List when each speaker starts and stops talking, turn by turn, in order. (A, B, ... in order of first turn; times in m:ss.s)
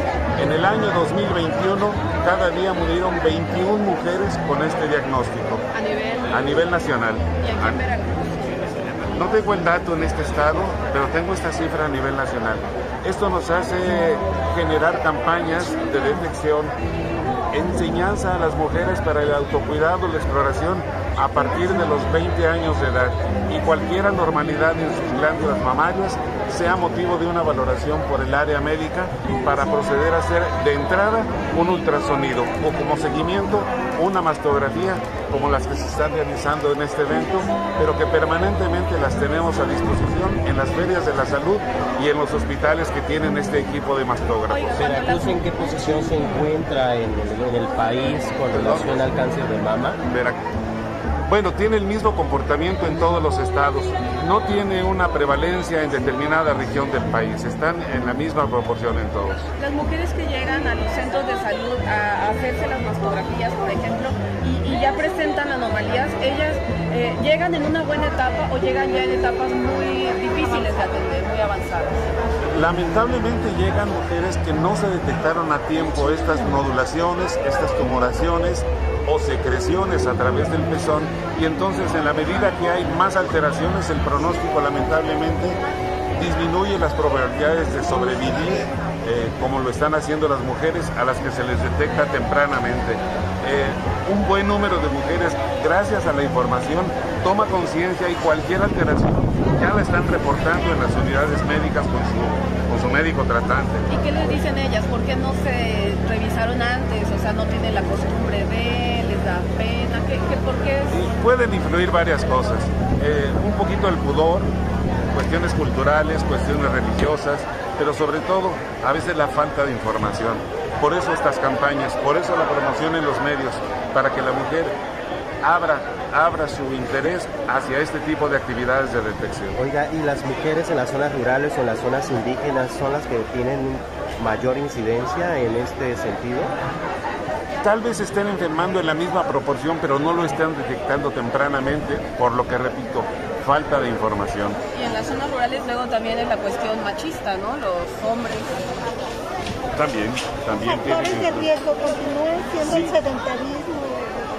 0:00.4-0:05.6 A
0:05.7-0:06.3 B
0:06.3-0:07.8 A
0:07.4-0:08.4 B
0:09.1-0:16.7 A
0:17.5-0:44.7 A
0:44.5-0:45.4 B
0:44.7-0:50.0 C
0:48.5-0:49.1 A
0:50.0-0:50.4 A
0:51.2-0:59.5 A
0:59.6-1:12.1 B
1:12.5-1:25.6 A
1:26.1-1:44.4 A
1:43.9-1:51.0 B
1:50.9-1:54.5 A
1:55.0-2:04.7 A
2:05.4-2:09.6 A
2:09.6-2:16.5 C
2:17.6-2:24.6 A
2:24.7-2:28.6 B
2:29.7-2:31.6 A
2:30.8-2:34.2 D
2:32.6-2:33.0 A